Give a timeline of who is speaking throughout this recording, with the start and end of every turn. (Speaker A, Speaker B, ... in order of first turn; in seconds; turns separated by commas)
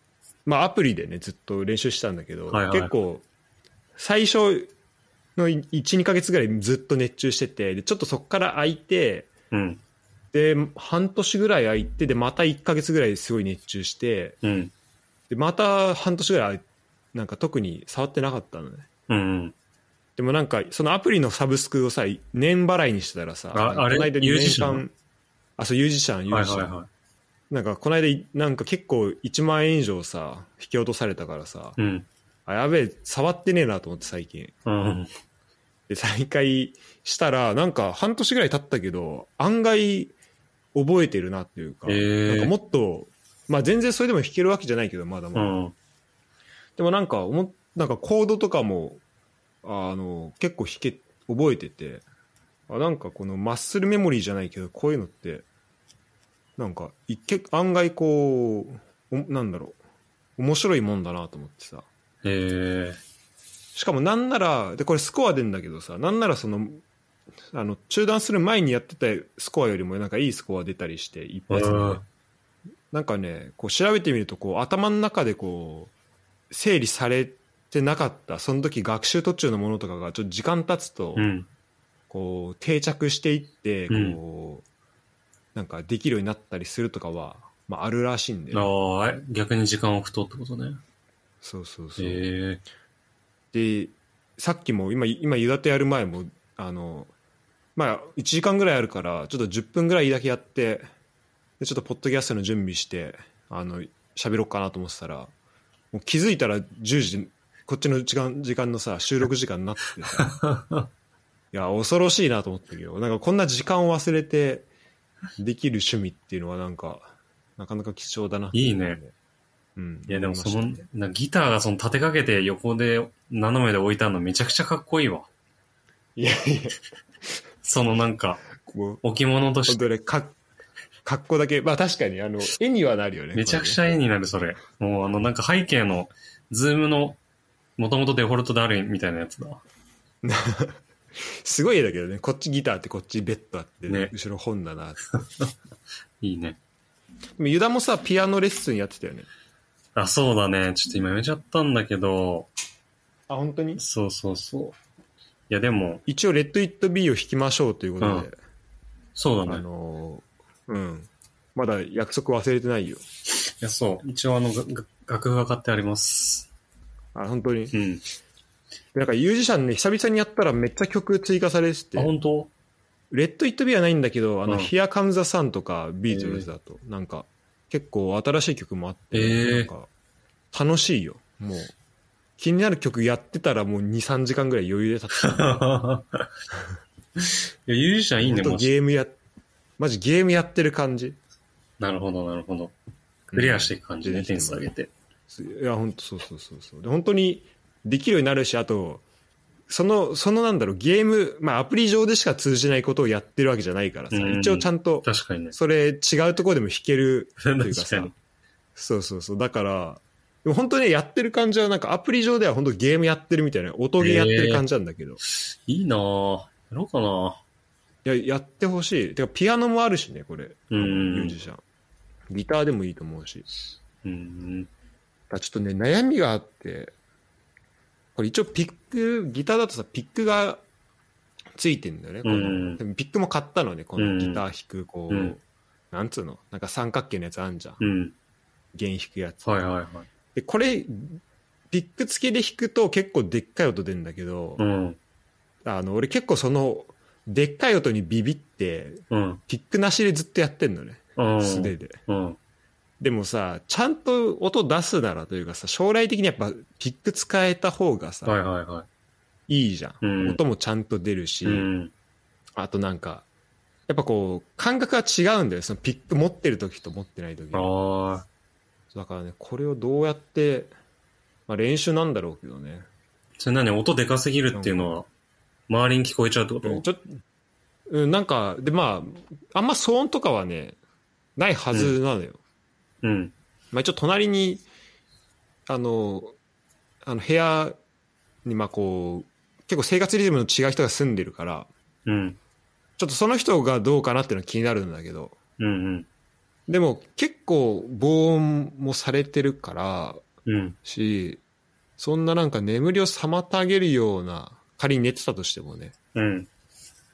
Speaker A: 0.5-3.2, Speaker B: 2.5-2.9, Speaker A: 4.0-4.7, Speaker A: 5.3-9.3, Speaker B: 9.5-9.8, Speaker A: 10.3-14.4, Speaker B: 14.4-14.7, Speaker A: 15.3-16.6, Speaker A: 17.1-18.9, Speaker B: 19.1-19.5, Speaker A: 20.2-24.9, Speaker B: 23.5-24.8, Speaker A: 25.6-26.7, Speaker B: 26.3-26.9, Speaker A: 27.5-31.8, Speaker B: 31.8-32.1, Speaker A: 32.5-34.5, Speaker B: 34.6-35.1, Speaker A: 35.9-40.1, Speaker A: 40.7-45.5, Speaker B: 41.9-42.5, Speaker B: 45.3-45.7, Speaker A: 46.8-49.0, Speaker A: 49.6-52.0, Speaker A: 52.7-55.4, Speaker A: 56.6-59.8, Speaker A: 60.4-61.9, Speaker B: 62.2-63.0, Speaker A: 63.7-66.8, Speaker A: 67.5-72.0, Speaker B: 71.5-72.0, Speaker A: 72.9-75.9, Speaker A: 76.5-81.2, Speaker B: 81.2-81.5, Speaker A: 82.1-84.6, Speaker B: 83.9-84.2, Speaker A: 85.5-88.7, Speaker B: 88.5-90.8, Speaker A: 91.4-92.2, Speaker B: 92.0-92.6, Speaker A: 93.5-97.1, Speaker A: 97.8-100.9, Speaker A: 101.6-105.3, Speaker A: 105.9-110.3, Speaker B: 110.2-110.9, Speaker A: 111.5-114.7, Speaker A: 115.4-119.1, Speaker B: 118.5-119.0, Speaker A: 119.8-120.8, Speaker B: 120.1-125.3, Speaker A: 126.2-126.8, Speaker B: 127.6-128.4, Speaker A: 128.6-129.0, Speaker B: 129.0-129.9, Speaker A: 129.7-130.3, Speaker A: 131.0-133.8, Speaker B: 133.3-137.2, Speaker B: 137.8-139.6, Speaker A: 140.2-145.0, Speaker B: 145.1-145.5, Speaker B: 146.2-146.6, Speaker A: 147.4-149.3, Speaker B: 149.9-152.5, Speaker A: 153.3-153.8, Speaker B: 153.8-154.8, Speaker B: 155.5-156.0, Speaker A: 156.1-158.3, Speaker B: 158.0-158.3, Speaker B: 159.2-159.6, Speaker A: 159.4-163.0, Speaker B: 163.6-166.5, Speaker A: 167.1-167.7, Speaker B: 167.7-168.0, Speaker A: 168.9-172.1, Speaker B: 171.9-172.5, Speaker A: 173.1-179.9, Speaker B: 174.5-174.7, Speaker B: 176.1-176.5, Speaker B: 179.1-179.7, Speaker A: 180.5-181.7, Speaker A: 182.4-185.6, Speaker B: 185.2-186.2, Speaker B: 187.2-188.7, Speaker A: 188.2-189.2, Speaker A: 189.8-191.2, Speaker B: 191.8-192.7, Speaker A: 193.3-194.7, Speaker B: 193.3-194.9, Speaker A: 195.3-199.0, Speaker A: 199.7-208.1, Speaker B: 204.1-205.5, Speaker B: 207.4-208.1, Speaker A: 208.8-215.2, Speaker B: 214.0-214.6, Speaker B: 215.7-217.4, Speaker A: 218.0-221.6, Speaker B: 220.7-221.3, Speaker A: 222.3-223.4, Speaker B: 224.0-224.7, Speaker A: 225.3-226.9, Speaker A: 228.2-230.6, Speaker A: 231.6-235.4, Speaker B: 232.2-232.8, Speaker B: 234.0-234.4, Speaker B: 235.1-235.3, Speaker A: 235.9-237.8, Speaker B: 237.8-238.1, Speaker A: 238.7-239.5, Speaker B: 239.4-240.1, Speaker A: 240.3-244.6, Speaker B: 244.6-245.0, Speaker A: 245.6-252.0, Speaker B: 249.1-249.4, Speaker B: 251.2-252.4, Speaker A: 253.0-258.4, Speaker B: 258.2-258.9, Speaker A: 259.5-261.7, Speaker B: 260.0-260.4, Speaker B: 261.4-261.9, Speaker A: 262.6-263.2, Speaker A: 263.9-267.7, Speaker B: 267.5-268.2, Speaker A: 268.9-270.7, Speaker A: 271.5-272.9, Speaker B: 273.4-275.1, Speaker A: 274.5-274.9, Speaker B: 275.7-276.9, Speaker A: 276.6-277.1, Speaker A: 277.9-280.8, Speaker A: 281.4-282.4, Speaker B: 283.0-283.3, Speaker A: 283.7-284.6, Speaker A: 285.7-286.3, Speaker A: 287.0-287.8, Speaker A: 288.4-291.7, Speaker B: 292.1-292.4, Speaker A: 293.0-295.3, Speaker B: 295.6-296.1, Speaker A: 296.7-300.2, Speaker B: 300.4-300.8, Speaker A: 300.9-301.4, Speaker A: 302.0-305.9, Speaker B: 306.1-306.5